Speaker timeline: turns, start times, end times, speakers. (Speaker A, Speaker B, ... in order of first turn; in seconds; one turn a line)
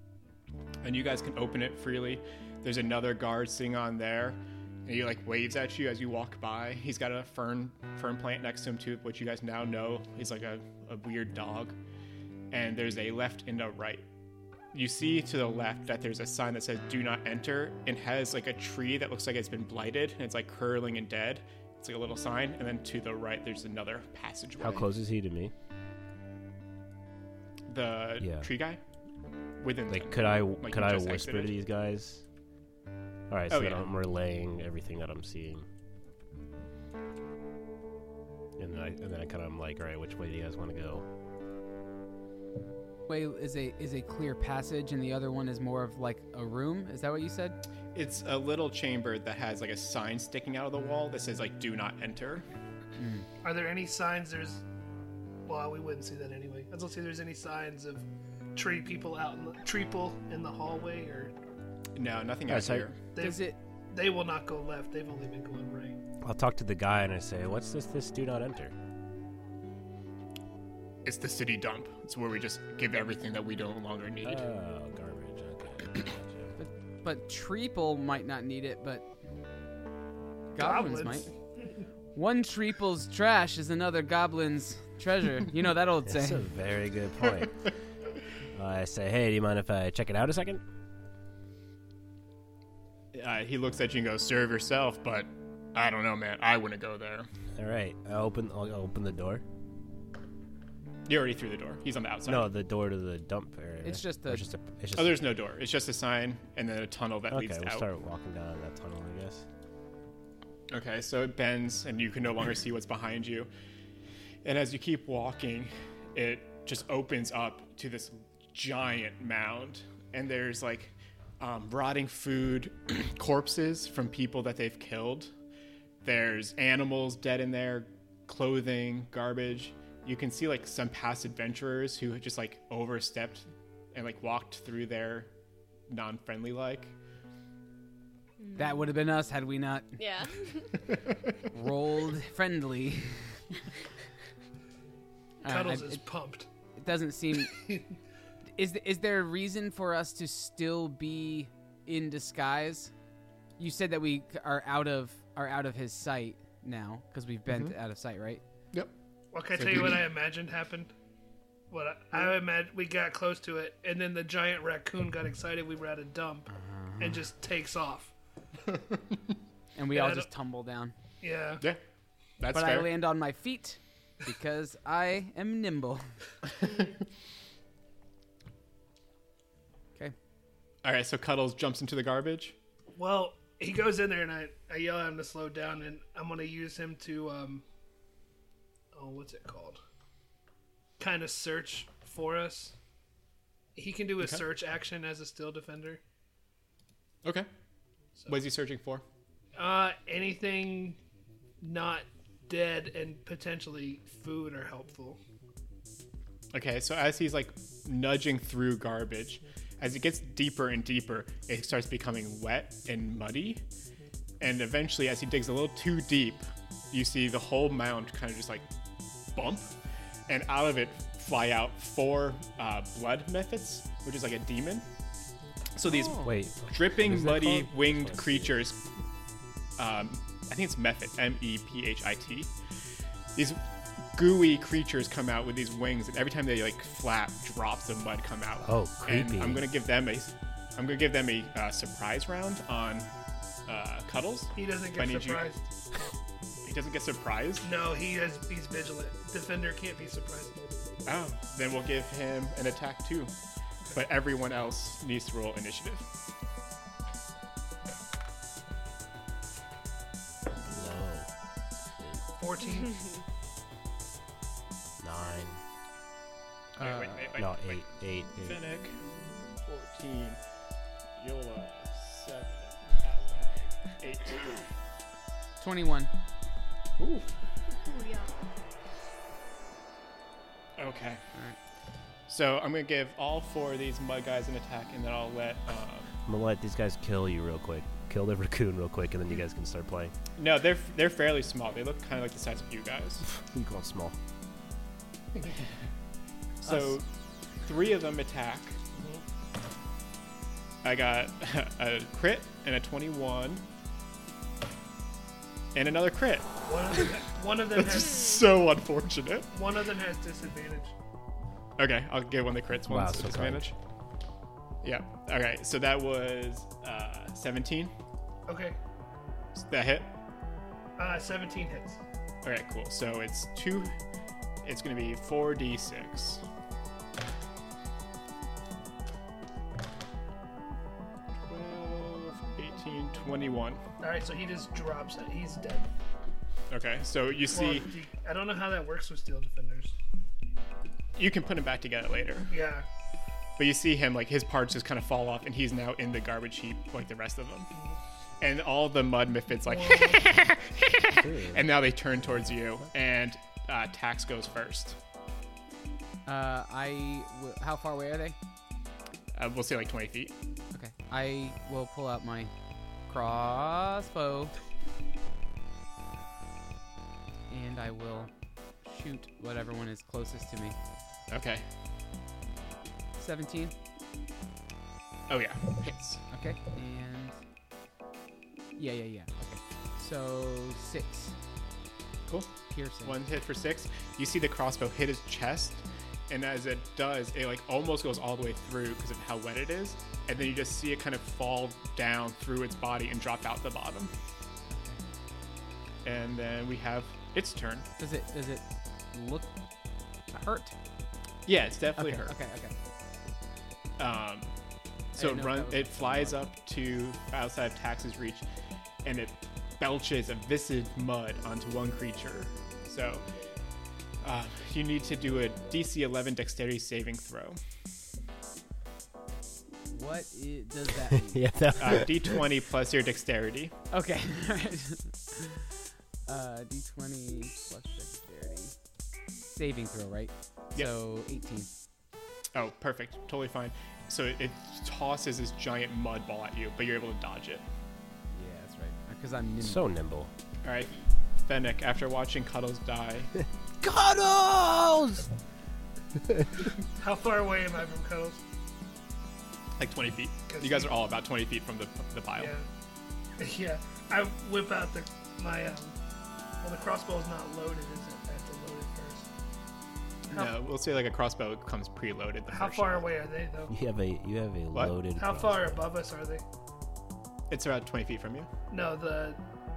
Speaker A: 0.8-11.8
Speaker A: 12.5-14.0
Speaker A: 14.7-24.9
Speaker B: 24.6-25.5
Speaker A: 27.7-28.8
Speaker B: 28.2-28.5
Speaker A: 29.6-31.5
Speaker B: 29.9-32.2
Speaker B: 33.3-35.6
Speaker A: 33.5-33.9
Speaker B: 38.6-41.0
Speaker C: 43.1-47.6
Speaker A: 47.9-52.5
Speaker C: 53.0-53.2
Speaker D: 53.4-54.6
Speaker D: 55.5-61.3
Speaker A: 62.0-63.0
Speaker B: 62.5-62.9
Speaker D: 63.1-66.0
Speaker C: 63.2-63.6
Speaker B: 66.2-68.7
Speaker A: 71.0-74.4
Speaker B: 74.2-76.5
Speaker C: 76.6-79.0
Speaker C: 80.5-81.3
Speaker D: 80.6-81.3
Speaker C: 82.1-86.5
Speaker B: 86.1-87.7
Speaker B: 88.5-90.6
Speaker A: 93.1-97.3
Speaker B: 97.6-99.4
Speaker A: 101.1-102.5
Speaker B: 102.2-105.2
Speaker C: 103.8-104.4
Speaker A: 105.0-107.9
Speaker B: 107.3-109.5
Speaker A: 110.7-113.5
Speaker A: 114.4-125.3
Speaker A: 126.0-135.3
Speaker A: 135.9-136.9
Speaker E: 138.4-138.9
Speaker C: 138.6-140.0
Speaker E: 140.0-140.8
Speaker C: 141.5-143.4
Speaker C: 145.4-146.0
Speaker D: 145.5-146.5
Speaker C: 146.8-147.6
Speaker D: 147.5-147.8
Speaker C: 148.6-152.9
Speaker C: 153.6-158.4
Speaker A: 157.5-157.8
Speaker D: 159.3-160.9
Speaker A: 159.6-160.0
Speaker C: 159.6-159.9
Speaker D: 161.7-168.1
Speaker C: 166.5-167.2
Speaker C: 169.8-170.9
Speaker D: 169.9-170.3
Speaker D: 171.2-171.6
Speaker A: 172.4-172.9
Speaker C: 172.5-176.1
Speaker A: 176.6-176.9
Speaker A: 180.8-182.6
Speaker D: 182.9-187.6
Speaker D: 188.9-189.8
Speaker D: 191.0-192.8
Speaker D: 193.8-196.0
Speaker A: 198.3-199.0
Speaker D: 199.6-201.0
Speaker D: 201.6-205.2
Speaker A: 206.5-213.6
Speaker A: 214.4-218.7
Speaker A: 219.3-219.7
Speaker A: 220.3-224.9
Speaker A: 225.8-228.8
Speaker C: 225.8-226.3
Speaker B: 226.2-228.5
Speaker A: 229.8-232.5
Speaker A: 234.1-243.1
Speaker B: 238.6-239.7
Speaker A: 243.7-245.5
Speaker D: 244.6-245.6
Speaker A: 246.6-247.7
Speaker D: 247.6-250.8
Speaker A: 251.1-253.3
Speaker A: 253.9-256.1
Speaker B: 260.7-261.3
Speaker B: 262.0-262.2
Speaker D: 262.4-263.0
Speaker B: 265.0-265.6
Speaker A: 266.8-267.8
Speaker C: 266.8-267.3
Speaker B: 267.4-268.6
Speaker A: 268.4-269.0
Speaker A: 269.6-270.4
Speaker A: 271.2-274.6
Speaker C: 275.6-276.1
Speaker A: 277.0-277.3
Speaker E: 277.7-278.3
Speaker A: 280.8-281.2
Speaker A: 282.3-286.1
Speaker B: 286.2-290.1
Speaker A: 290.4-293.3
Speaker B: 293.3-294.2
Speaker A: 296.6-297.1
Speaker A: 297.6-298.8
Speaker D: 299.0-299.2
Speaker A: 300.8-303.6
Speaker A: 305.7-307.1
Speaker D: 306.6-308.3
Speaker A: 307.8-309.5
Speaker D: 309.5-310.9
Speaker A: 311.8-313.7
Speaker B: 312.9-313.7
Speaker A: 314.8-317.9
Speaker D: 318.5-318.8
Speaker A: 319.6-320.1
Speaker D: 321.0-322.0
Speaker A: 322.4-323.9
Speaker A: 324.6-326.4
Speaker A: 331.5-333.8
Speaker D: 334.0-335.9
Speaker A: 336.7-337.9
Speaker D: 337.5-339.9
Speaker A: 341.1-342.6
Speaker D: 342.5-342.9
Speaker A: 343.6-347.7
Speaker A: 348.4-355.0
Speaker D: 349.6-350.2
Speaker B: 351.1-351.8
Speaker C: 356.3-358.4
Speaker A: 359.3-360.3
Speaker C: 360.7-362.5
Speaker C: 363.1-364.5
Speaker C: 367.5-370.8
Speaker A: 371.3-371.6
Speaker C: 373.2-373.7
Speaker A: 375.3-376.2
Speaker C: 376.3-377.4
Speaker C: 378.8-381.4
Speaker A: 382.3-394.1
Speaker C: 382.7-383.1
Speaker C: 394.7-395.0
Speaker A: 396.0-397.9
Speaker C: 398.0-399.5
Speaker C: 400.3-400.8
Speaker A: 401.4-402.4
Speaker C: 402.0-402.7
Speaker A: 404.0-404.5
Speaker A: 405.1-408.4
Speaker C: 405.2-406.4
Speaker A: 409.0-413.2
Speaker A: 414.2-417.6
Speaker C: 419.9-421.4
Speaker B: 421.3-422.4
Speaker A: 421.8-423.7
Speaker C: 423.9-425.6
Speaker C: 426.3-428.8
Speaker C: 429.5-431.7
Speaker A: 432.5-437.6
Speaker C: 438.3-439.9
Speaker B: 439.6-440.3
Speaker A: 440.6-443.3
Speaker B: 443.8-445.3
Speaker D: 447.0-448.4
Speaker A: 449.8-452.6
Speaker D: 450.5-450.9
Speaker D: 452.4-452.6
Speaker D: 453.4-455.9
Speaker D: 456.6-459.3
Speaker A: 460.3-463.1
Speaker D: 462.5-463.7
Speaker B: 463.7-465.9
Speaker D: 465.1-466.4
Speaker A: 467.5-468.5
Speaker D: 468.7-469.4